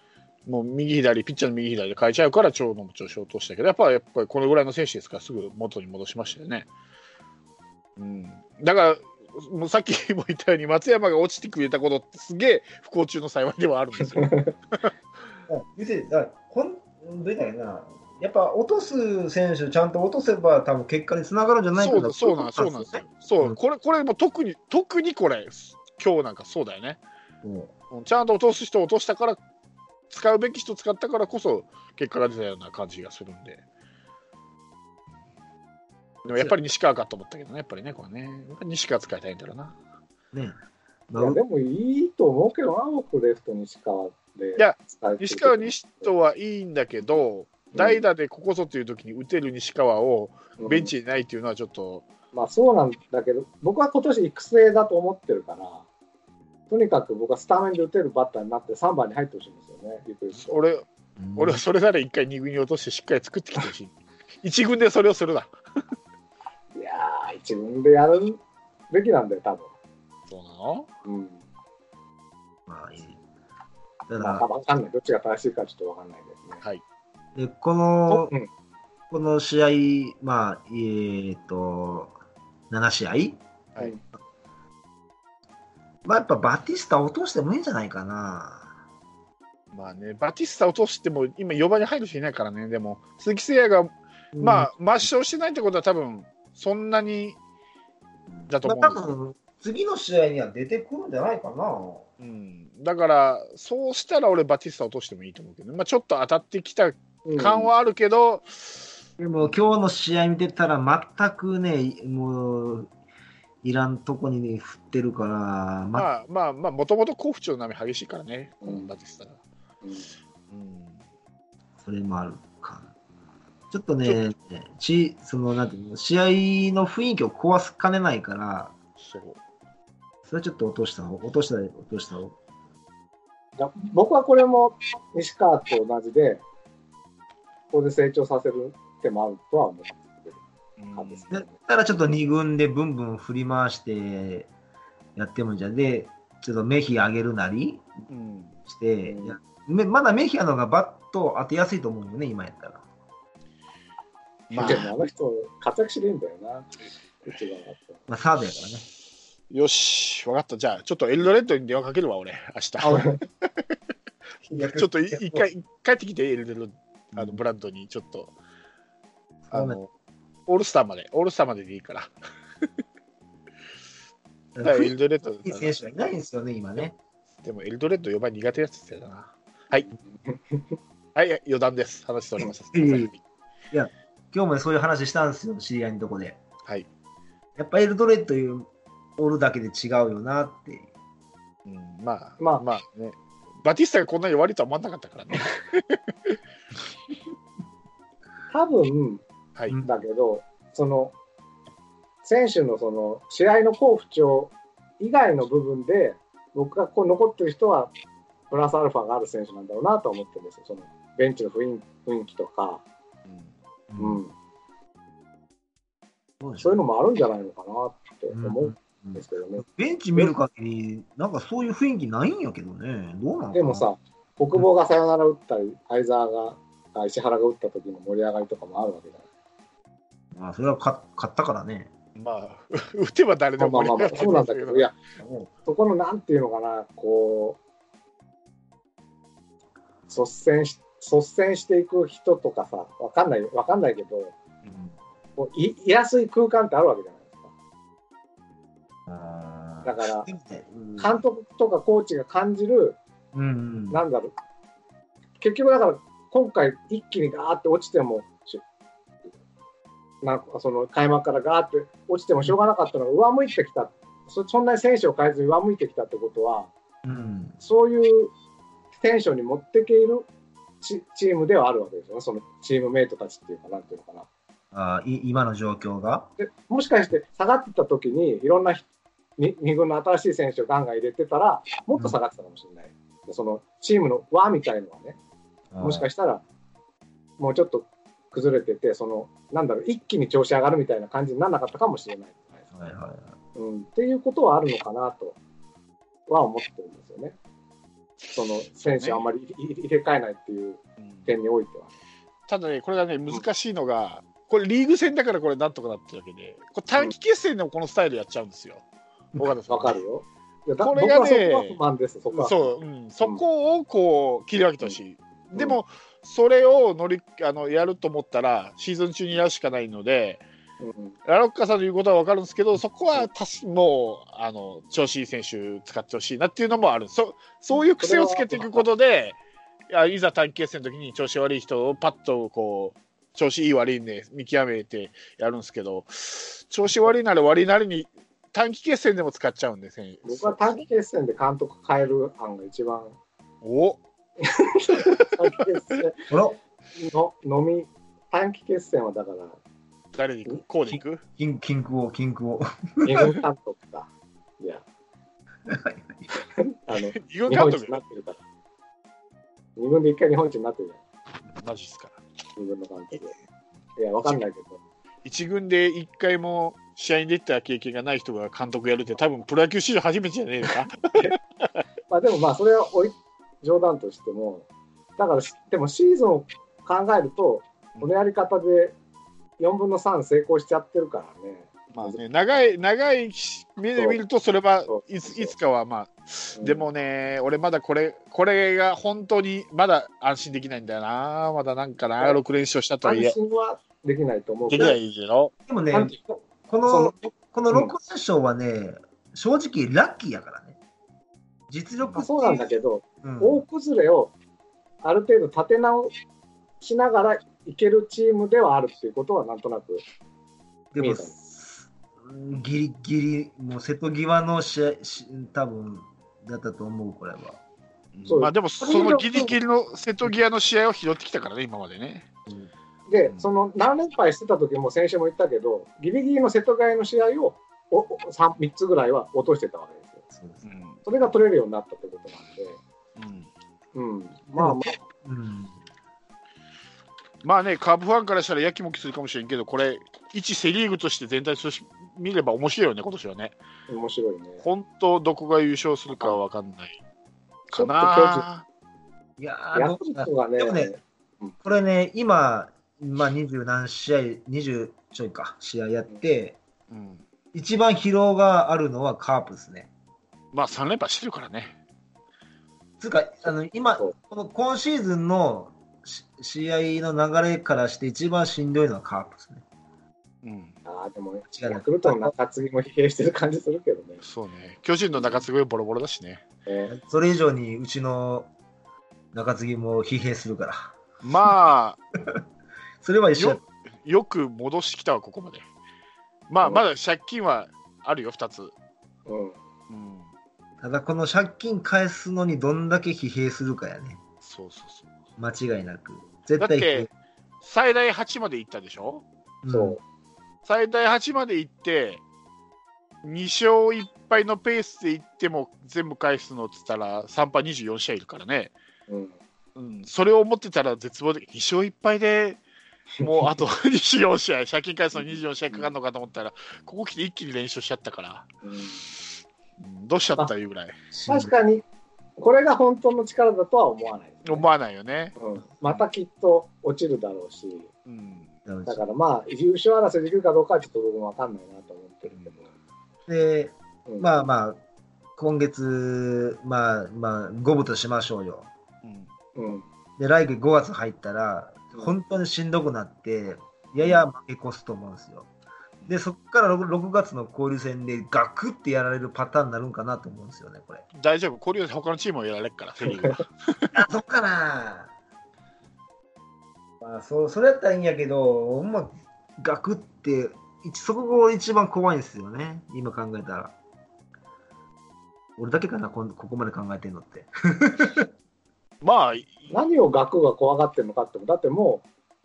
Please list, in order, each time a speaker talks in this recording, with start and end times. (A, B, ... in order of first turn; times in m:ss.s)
0:00.5-0:06.7 A
0:08.0-0:14.9 A
0:14.2-0:14.5 B
0:15.5-0:23.6 C
0:21.8-0:27.0 A
0:27.4-0:27.7 C
0:27.9-0:29.4 A
0:30.1-0:33.6 A
0:36.2-0:39.8 A
0:40.3-0:40.6 C
0:41.1-0:41.4 C
0:41.2-0:46.1 B
0:44.6-0:52.1 A
0:47.7-0:48.0 B
0:50.6-0:50.9 B
0:52.3-0:55.8 B
0:56.7-1:00.5 B
1:00.4-1:05.5 A
1:01.2-1:01.6 C
1:06.8-1:08.4 B
1:08.9-1:09.7 B
1:10.3-1:10.9 A
1:11.1-1:11.4 B
1:12.7-1:13.2 C
1:14.1-1:14.4 C
1:14.2-1:16.6 B
1:17.4-1:18.3 C
1:18.1-1:18.5 B
1:19.1-1:22.1 C
1:22.7-1:23.4 C
1:26.0-1:28.8 C
1:29.7-1:37.4 A
1:34.3-1:34.7 C
1:38.3-1:42.0 C
1:38.5-1:39.1 A
1:42.2-1:48.8 A
1:47.2-1:47.7 B
1:49.2-1:52.9 C
1:53.6-1:56.1 C
1:55.9-1:59.4 A
1:59.8-2:00.1 B
2:00.5-2:01.0 A
2:01.8-2:02.9 C
2:03.7-2:08.7 C
2:09.0-2:09.4 A
2:10.3-2:12.4 C
2:13.6-2:16.4 B
2:17.7-2:20.4 B
2:20.8-2:21.3 A
2:21.0-2:21.5 B
2:21.3-2:24.5 C
2:25.2-2:28.0 C
2:28.1-2:28.6 A
2:28.7-2:32.8 C
2:29.0-2:29.4 B
2:34.5-2:34.9 A
2:34.6-2:38.0 B
2:38.1-2:38.9 C
2:39.5-2:43.2 A
2:42.8-2:43.2 B
2:44.5-2:45.4 C
2:44.8-2:48.3 A
2:47.1-2:47.4 C
2:49.5-2:49.8 C
2:49.5-2:49.9 A
2:50.5-2:52.1 A
2:54.6-2:54.9 C
2:54.6-2:55.7 A
2:55.4-2:57.0 C
2:57.4-2:59.9 A
3:00.2-3:00.7 B
3:01.2-3:03.2 A
3:02.7-3:03.1 C
3:03.7-3:06.4 C
3:07.6-3:10.9 C
3:11.7-3:16.3 A
3:12.4-3:12.6 B
3:18.5-3:19.2 B
3:19.8-3:21.1 B
3:22.2-3:27.9 B
3:28.5-3:32.8 B
3:33.3-3:33.5 A
3:33.9-3:34.2 C
3:34.0-3:34.3 B
3:36.4-3:36.8 C
3:36.6-3:40.3 B
3:38.3-3:43.9 C
3:43.5-3:49.2 B
3:50.3-3:51.9 C
3:52.2-3:54.9 A
3:53.6-3:54.9 B
3:55.2-3:55.5 C
3:55.7-3:57.6 B
4:00.1-4:04.4 B
4:04.7-4:04.9 C
4:05.4-4:07.5 B
4:09.1-4:11.2 C
4:09.8-4:10.3 B
4:11.0-4:13.0 B
4:13.3-4:14.0 C
4:13.9-4:14.3 B
4:15.4-4:18.6 B
4:20.2-4:26.7 B
4:27.0-4:27.6 C
4:27.6-4:28.3 B
4:29.0-4:30.3 B
4:30.8-4:34.3 B
4:34.7-4:36.3 C
4:36.4-4:38.8 B
4:39.4-4:45.2 B
4:45.7-4:46.1 C
4:45.8-4:46.4 B
4:47.4-4:52.6 B
4:52.7-4:53.4 C
4:53.6-4:55.4 B
4:56.3-4:57.4 B
4:58.3-5:01.9 B
4:58.7-4:59.3 A
5:01.0-5:01.3 A
5:02.5-5:08.8 A
5:09.4-5:10.0 A
5:09.7-5:13.4 B
5:10.8-5:11.8 A
5:12.3-5:20.4 A
5:20.8-5:21.2 B
5:21.3-5:29.4 A
5:27.7-5:28.8 B
5:29.9-5:40.8 A
5:40.3-5:43.2 B
5:43.6-5:44.0 A
5:44.4-5:46.3 B
5:45.0-5:45.6 A
5:46.3-5:46.6 C
5:47.0-5:49.6 B
5:50.2-5:51.2 A
5:50.9-5:53.4 C
5:53.0-5:54.1 B
5:55.7-5:56.3 C
5:56.4-5:58.4 B
5:57.0-5:58.0 A
5:59.8-6:01.0 B
6:01.6-6:02.2 A
6:02.6-6:03.3 B
6:04.0-6:04.8 B
6:05.2-6:11.7 A
6:12.1-6:19.0 B
6:19.6-6:22.2 B
6:21.9-6:33.4 A
6:24.0-6:24.2 B
6:24.9-6:25.5 B
6:26.6-6:26.9 B
6:33.0-6:35.0 B
6:34.7-6:35.5 A
6:35.7-6:40.8 C
6:36.9-6:37.9 B
6:41.7-6:42.7 C
6:42.1-6:44.3 B
6:43.2-6:43.6 C
6:45.0-6:46.2 B
6:46.8-6:50.0 B
6:50.9-6:57.6 C
6:51.0-6:51.4 B
6:58.1-7:02.3 A
6:58.3-6:59.5 B
7:03.1-7:10.2 B
7:10.3-7:10.6 C
7:10.6-7:11.0 A
7:11.0-7:12.8 B
7:13.2-7:13.5 A
7:14.0-7:15.0 B
7:14.6-7:15.8 C
7:17.4-7:23.6 A
7:23.9-7:24.6 B
7:24.6-7:27.0 A
7:27.7-7:28.6 A
7:27.7-7:28.4 B
7:29.4-7:30.9 C
7:29.7-7:31.6 B
7:31.6-7:36.6 C
7:36.9-7:37.2 A
7:37.5-7:39.9 C
7:40.5-7:41.8 A
7:43.0-7:49.6 C
7:50.4-7:50.8 A
7:50.9-7:54.2 B
7:51.5-7:52.3 C
7:54.2-7:56.4 A
7:56.7-7:56.9 B
7:56.9-7:58.5 C
7:59.3-8:01.0 C
8:01.2-8:02.0 A
8:03.0-8:03.6 C
8:03.4-8:05.6 A
8:06.5-8:08.7 A
8:09.3-8:09.6 B
8:09.9-8:10.3 A
8:10.8-8:14.2 C
8:14.4-8:15.1 A
8:15.4-8:17.1 C
8:16.6-8:17.1 A
8:17.6-8:19.2 A
8:19.6-8:20.0 C
8:19.7-8:20.0 B
8:20.6-8:22.2 A
8:23.2-8:28.7 A
8:29.1-8:29.4 B
8:29.8-8:32.6 A
8:33.2-8:38.5 A
8:35.2-8:35.9 B
8:38.6-8:39.0 B
8:39.8-8:41.0 A
8:41.1-8:41.5 C
8:41.3-8:41.8 B
8:42.4-8:44.6 B
8:44.4-8:45.4 A
8:45.4-8:47.9 B
8:48.1-8:48.5 A
8:48.7-8:49.0 C
8:48.9-8:52.7 B
8:52.3-8:52.6 A
8:53.3-8:54.8 C
8:55.4-8:58.7 C
8:59.0-8:59.3 A
8:59.6-8:59.9 B
9:00.2-9:05.5 C
9:06.1-9:11.0 C
9:11.1-9:13.9 A
9:13.9-9:15.1 C
9:17.0-9:23.7 C
9:25.6-9:28.3 C
9:29.0-9:29.8 A
9:29.7-9:32.1 B